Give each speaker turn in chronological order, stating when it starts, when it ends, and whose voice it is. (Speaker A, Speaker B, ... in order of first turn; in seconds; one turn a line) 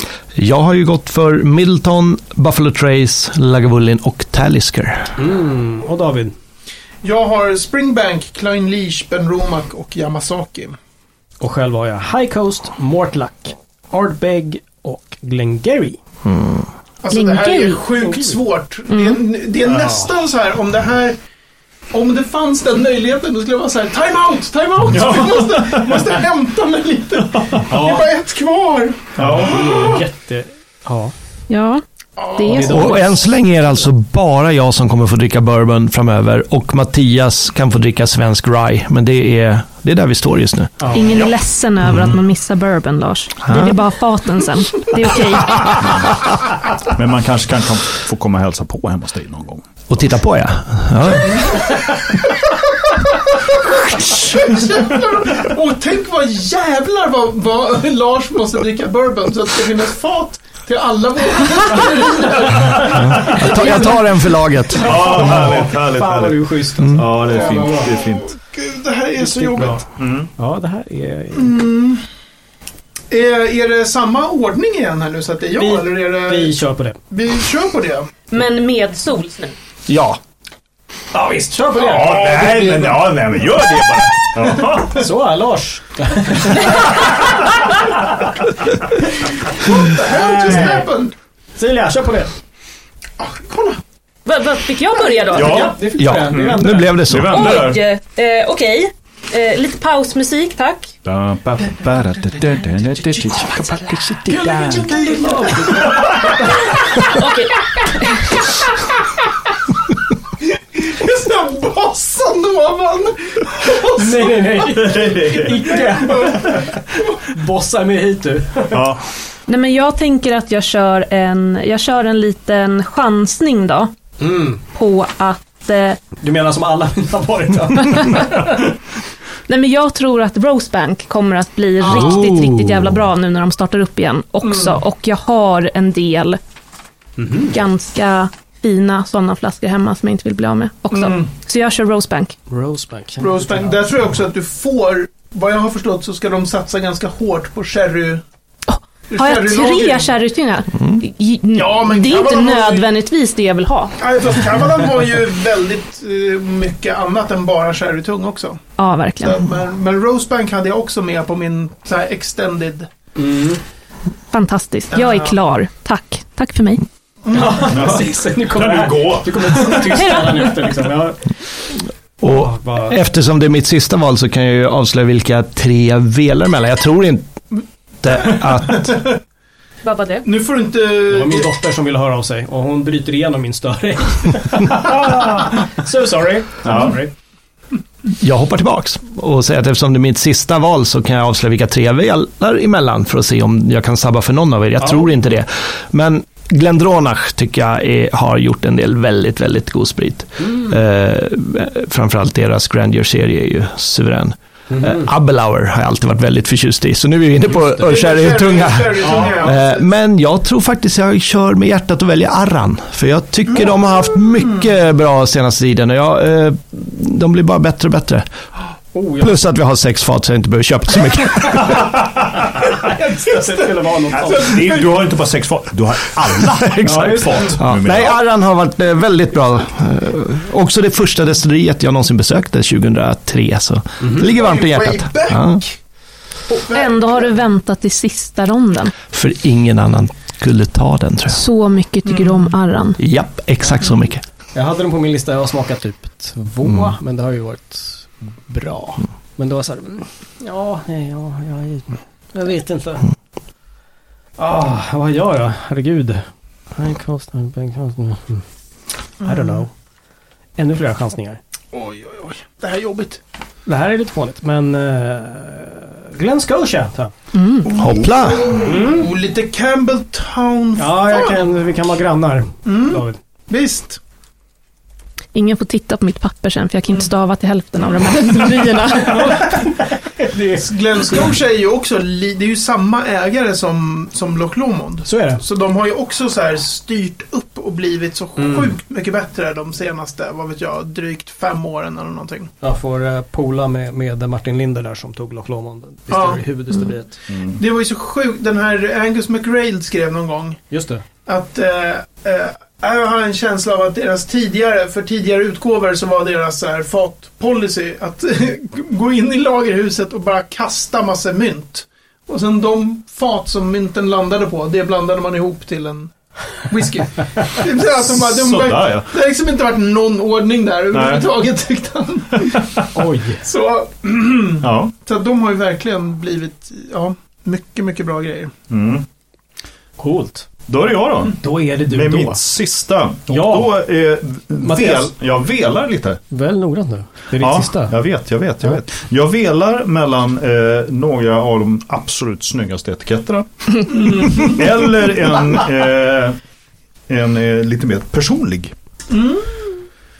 Speaker A: 0.3-5.1
Speaker B: 5.2-6.3
Speaker C: 7.0-10.8
Speaker B: 11.4-16.0
Speaker A: 16.2-16.6
Speaker C: 17.0-21.2
Speaker D: 17.1-17.8
Speaker B: 18.0-18.4
Speaker D: 18.9-19.2
Speaker B: 19.6-20.1
Speaker C: 21.9-29.9
Speaker E: 24.9-26.1
Speaker E: 27.3-27.6
Speaker B: 27.7-28.1
Speaker E: 29.2-29.9
Speaker B: 29.2-31.1
Speaker D: 31.5-31.8
Speaker C: 32.2-32.9
Speaker D: 32.3-33.0
Speaker B: 32.5-33.1
Speaker A: 32.6-40.7
Speaker B: 40.8-41.1
Speaker D: 40.9-46.0
Speaker A: 43.5-43.8
Speaker E: 46.9-49.6
Speaker A: 49.9-51.6
Speaker C: 52.9-64.0
Speaker A: 63.0-65.0
Speaker E: 64.8-68.3
Speaker B: 64.8-67.9
Speaker C: 67.3-69.8
Speaker B: 69.2-69.8
Speaker E: 70.0-70.3
Speaker B: 70.4-71.5
Speaker C: 71.3-72.0
Speaker C: 73.1-76.6
Speaker B: 75.5-77.0
Speaker C: 77.1-78.1
Speaker D: 78.3-79.5
Speaker A: 79.9-80.2
Speaker B: 81.1-82.7
Speaker E: 81.8-85.0
Speaker C: 82.3-82.9
Speaker B: 84.9-86.9
Speaker C: 89.6-91.1
Speaker B: 89.8-90.9
Speaker B: 91.6-92.3
Speaker C: 93.2-93.8
Speaker D: 94.2-95.7
Speaker E: 95.3-97.8
Speaker B: 95.3-97.0
Speaker A: 96.0-97.4
Speaker D: 97.3-100.9
Speaker E: 101.0-104.2
Speaker C: 104.3-107.2
Speaker B: 104.3-106.4
Speaker D: 107.1-108.2
Speaker C: 110.7-114.7
Speaker B: 113.9-118.8
Speaker E: 114.7-115.6
Speaker C: 115.7-117.2
Speaker E: 118.7-119.0
Speaker D: 119.5-123.9
Speaker B: 124.2-124.6
Speaker D: 124.7-126.0
Speaker B: 126.2-128.6
Speaker D: 129.5-136.4
Speaker A: 131.9-132.9
Speaker C: 134.4-134.8
Speaker B: 137.2-137.5
Speaker D: 137.5-142.3
Speaker C: 140.9-141.3
Speaker B: 142.5-143.8
Speaker C: 143.2-148.2
Speaker D: 148.7-153.9
Speaker C: 149.1-150.1
Speaker C: 151.5-152.9
Speaker C: 154.0-158.6
Speaker D: 158.8-159.4
Speaker C: 159.2-162.9
Speaker B: 163.2-163.6
Speaker D: 164.3-166.8
Speaker C: 164.9-165.3
Speaker C: 167.2-167.8
Speaker B: 167.3-171.2
Speaker E: 167.7-169.9
Speaker D: 169.9-170.5
Speaker A: 172.2-177.3
Speaker B: 172.2-173.0
Speaker A: 178.0-179.0
Speaker C: 178.1-179.2
Speaker D: 179.8-180.3
Speaker C: 180.2-181.5
Speaker B: 181.1-187.1
Speaker E: 186.6-187.0
Speaker A: 188.2-218.3
Speaker B: 204.7-205.1
Speaker C: 207.6-209.9
Speaker B: 209.0-209.4
Speaker B: 218.9-219.4
Speaker A: 219.2-221.8
Speaker E: 221.7-222.0
Speaker B: 222.7-224.8
Speaker E: 224.1-228.2
Speaker A: 226.7-235.6
Speaker B: 226.8-227.6
Speaker B: 234.0-234.3
Speaker C: 234.2-235.8
Speaker C: 236.5-237.3
Speaker D: 236.5-238.9
Speaker A: 239.1-241.4
Speaker D: 241.3-243.0
Speaker C: 242.1-242.4
Speaker A: 243.0-244.2
Speaker B: 244.5-253.1
Speaker B: 254.4-258.4
Speaker B: 259.2-259.7
Speaker B: 260.6-261.4
Speaker C: 261.7-263.2
Speaker B: 263.6-267.1
Speaker D: 267.3-267.7
Speaker C: 267.6-271.4
Speaker A: 267.8-268.6
Speaker B: 268.6-269.1
Speaker B: 270.8-273.2
Speaker C: 272.6-274.0
Speaker D: 275.3-279.5
Speaker C: 279.1-279.3
Speaker B: 279.1-281.3
Speaker C: 280.6-292.5
Speaker B: 285.1-285.4
Speaker B: 288.4-288.7
Speaker B: 292.6-297.1
Speaker C: 296.1-296.9
Speaker E: 297.3-297.6
Speaker C: 297.6-300.6
Speaker B: 300.7-301.0
Speaker C: 301.2-322.6
Speaker E: 318.0-319.1
Speaker E: 320.9-321.3
Speaker E: 322.5-322.8
Speaker B: 322.9-323.4
Speaker C: 323.4-328.5
Speaker E: 324.6-324.9
Speaker E: 328.7-329.0
Speaker B: 330.0-330.4
Speaker E: 330.7-336.2
Speaker B: 331.4-332.4
Speaker B: 333.3-333.8
Speaker B: 334.6-335.1
Speaker B: 336.3-337.9
Speaker E: 337.4-346.4
Speaker C: 343.9-344.6
Speaker E: 347.1-348.7
Speaker C: 349.1-349.8